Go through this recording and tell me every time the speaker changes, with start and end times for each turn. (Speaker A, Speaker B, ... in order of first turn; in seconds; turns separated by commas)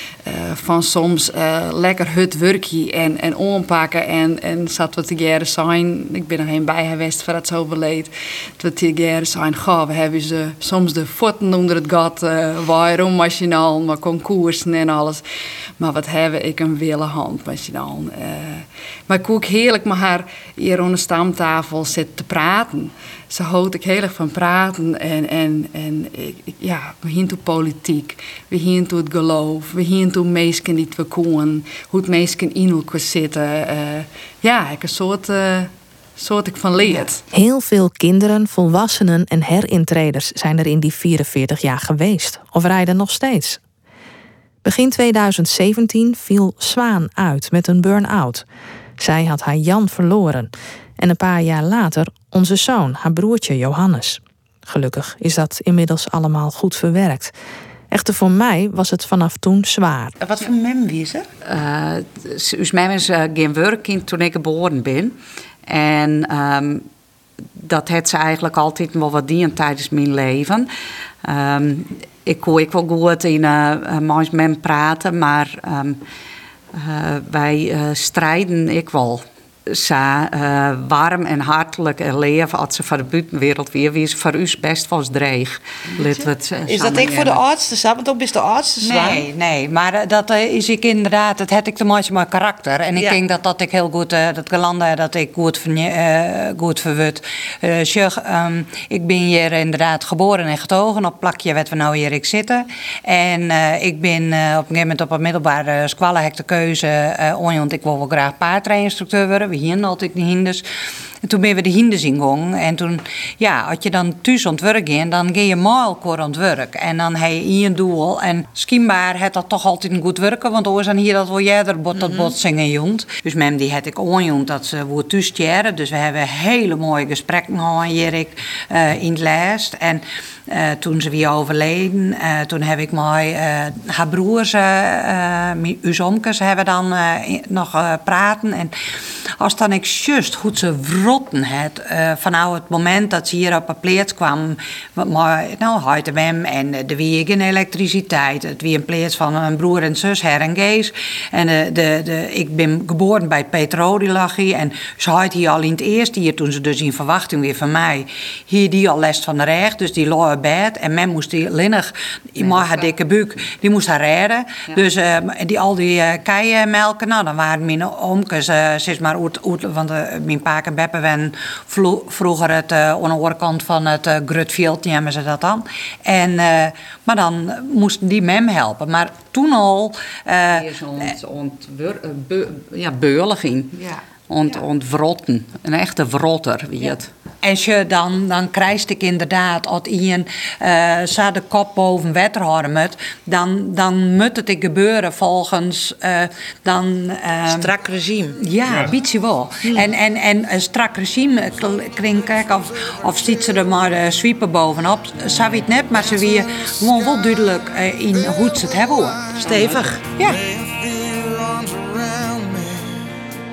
Speaker A: 0.2-15.2, Speaker A: 15.8-37.2, Speaker B: 37.3-43.6, Speaker B: 44.6-48.4, Speaker B: 49.0-57.3, Speaker B: 57.9-60.1, Speaker C: 60.2-61.3, Speaker D: 61.4-66.9, Speaker D: 67.5-70.7, Speaker D: 71.2-76.0, Speaker D: 76.7-87.4, Speaker C: 86.7-89.2, Speaker E: 88.8-110.7, Speaker E: 111.2-180.7, Speaker D: 180.5-187.1, Speaker C: 183.8-184.0, Speaker E: 187.4-197.7, Speaker C: 197.4-198.4, Speaker E: 198.3-210.5, Speaker C: 209.3-210.1